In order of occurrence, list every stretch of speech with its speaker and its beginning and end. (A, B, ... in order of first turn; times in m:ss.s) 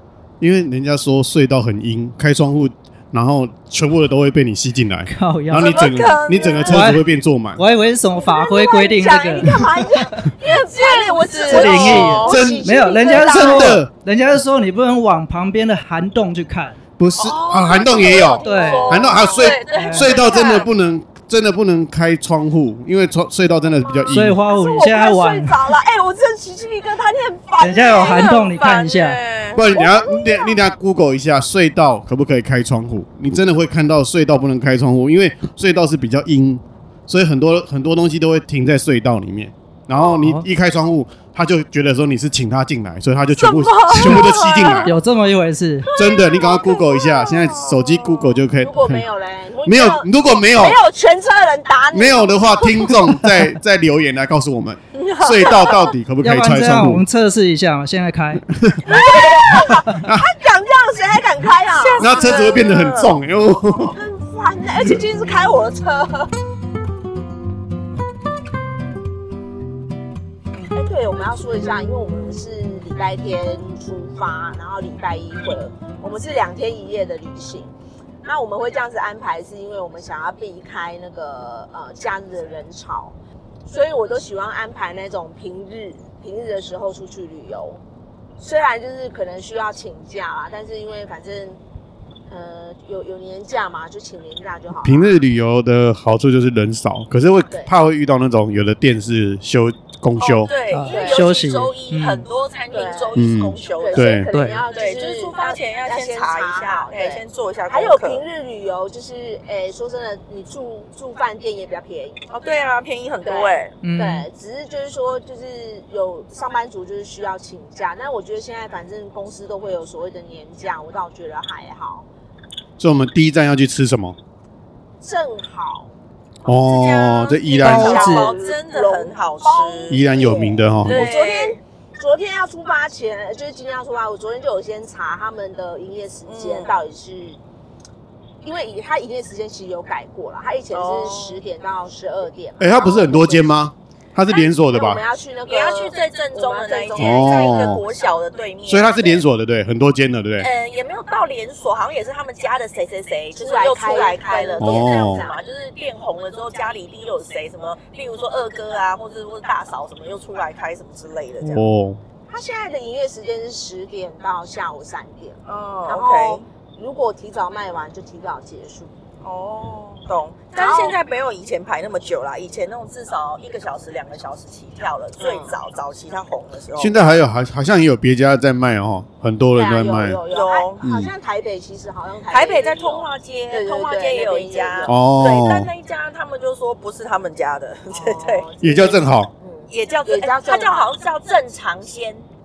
0:00.4-0:07.6 A
0:05.1-0:10.2 B
0:05.5-0:06.9 C
0:06.0-0:06.7 D
0:08.1-0:13.8 D
0:10.4-0:12.4 C
0:11.4-0:16.8 B
0:11.6-0:13.9 A
0:17.0-0:24.4 A
0:17.2-0:20.7 C
0:17.9-0:19.5 D
0:18.4-0:19.1 B
0:19.7-0:20.2 B
0:23.8-0:28.4 D
0:24.1-0:25.7 B
0:27.6-0:29.2 B
0:27.9-0:29.7 C
0:29.5-0:45.0 A
0:29.7-0:30.6 D
0:40.2-0:40.4 B
0:43.4-0:44.9 C
0:44.8-0:45.9 B
0:45.9-0:48.4 C
0:45.9-0:49.1 A
0:48.6-0:53.0 D
0:49.6-0:50.8 A
0:51.9-0:57.0 A
0:54.9-0:55.9 C
0:56.2-0:58.4 B
0:58.5-0:59.0 A
0:58.8-1:02.5 D
0:59.8-1:00.2 A
1:01.6-1:03.2 C
1:02.0-1:04.0 A
1:03.9-1:06.3 D
1:10.7-1:17.7 D
1:18.2-1:23.1 D
1:23.6-1:27.8 D
1:28.4-1:31.6 D
1:32.3-1:35.2 D
1:34.8-1:40.5 A
1:40.2-1:48.2 C
1:40.7-1:42.2 B
1:40.9-1:41.3 D
1:42.7-1:52.2 D
1:43.1-1:44.3 A
1:44.3-1:44.6 B
1:52.3-1:53.8 C
1:53.2-2:02.0 D
1:53.8-1:54.3 B
2:02.8-2:04.2 A
2:05.0-2:05.9 D
2:06.4-2:08.0 A
2:06.4-2:10.0 C
2:07.6-2:08.3 B
2:07.7-2:17.4 D
2:09.9-2:11.1 A
2:10.8-2:11.6 C
2:16.3-2:16.8 C
2:18.4-2:23.5 D
2:20.7-2:21.4 C
2:22.6-2:25.0 A
2:24.3-2:27.8 D
2:25.5-2:29.2 C
2:27.0-2:27.8 A
2:28.7-2:30.5 A
2:30.4-2:41.6 C
2:33.4-2:35.4 D
2:34.6-2:35.2 A
2:41.4-2:42.0 A
2:42.3-2:48.9 D
2:45.4-2:46.4 C
2:49.2-2:57.0 C
2:50.6-2:51.0 D
2:55.2-2:55.6 D
2:56.8-3:00.2 A
2:59.5-3:05.0 D
3:00.3-3:00.8 C
3:00.8-3:01.1 A
3:02.3-3:08.4 C
3:04.9-3:05.7 A
3:07.9-3:10.9 D
3:08.6-3:09.3 A
3:09.7-3:12.3 C